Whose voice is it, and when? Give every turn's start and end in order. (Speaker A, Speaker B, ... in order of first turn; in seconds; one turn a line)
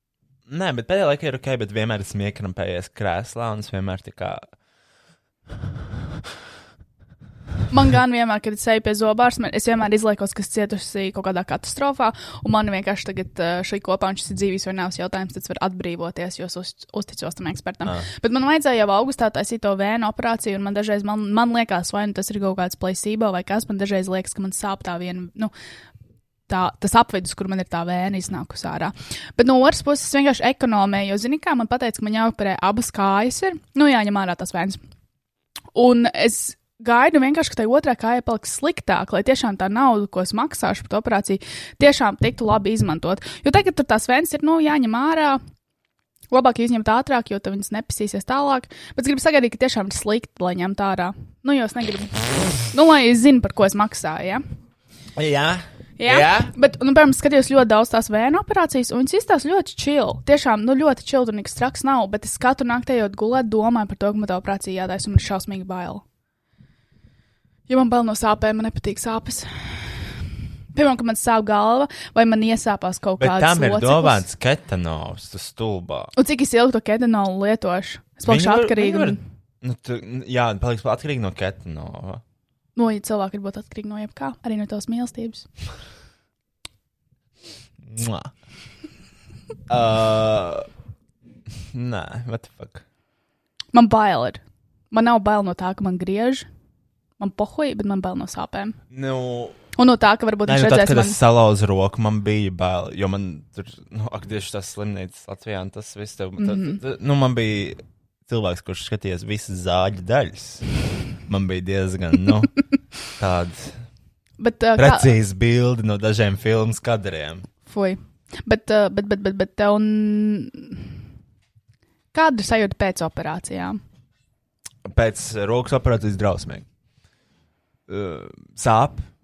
Speaker A: 0.5-4.5
Speaker B: 7.7-25.5
Speaker B: 26.5-34.8
Speaker B: 35.7-45.4
Speaker B: 46.3-54.4
Speaker A: 55.2-56.5
Speaker B: 56.0-66.0
Speaker B: 67.7-70.1
Speaker B: 70.7-74.2
Speaker A: 73.2-76.1
Speaker B: 76.2-79.2
Speaker A: 78.3-82.2
Speaker B: 82.8-85.5
Speaker A: 87.8-88.3
Speaker A: 89.7-90.7
Speaker A: 91.7-92.8
Speaker B: 93.7-94.4
Speaker B: 94.9-96.5
Speaker B: 97.2-98.8
Speaker A: 98.9-99.6
Speaker B: 99.8-101.2
Speaker A: 100.5-110.7
Speaker B: 106.4-106.8
Speaker A: 111.3-112.6
Speaker A: 113.1-113.9
Speaker B: 114.4-115.1
Speaker A: 114.8-117.5
Speaker B: 117.7-120.9
Speaker B: 122.1-123.8
Speaker A: 124.8-126.7
Speaker A: 127.9-129.1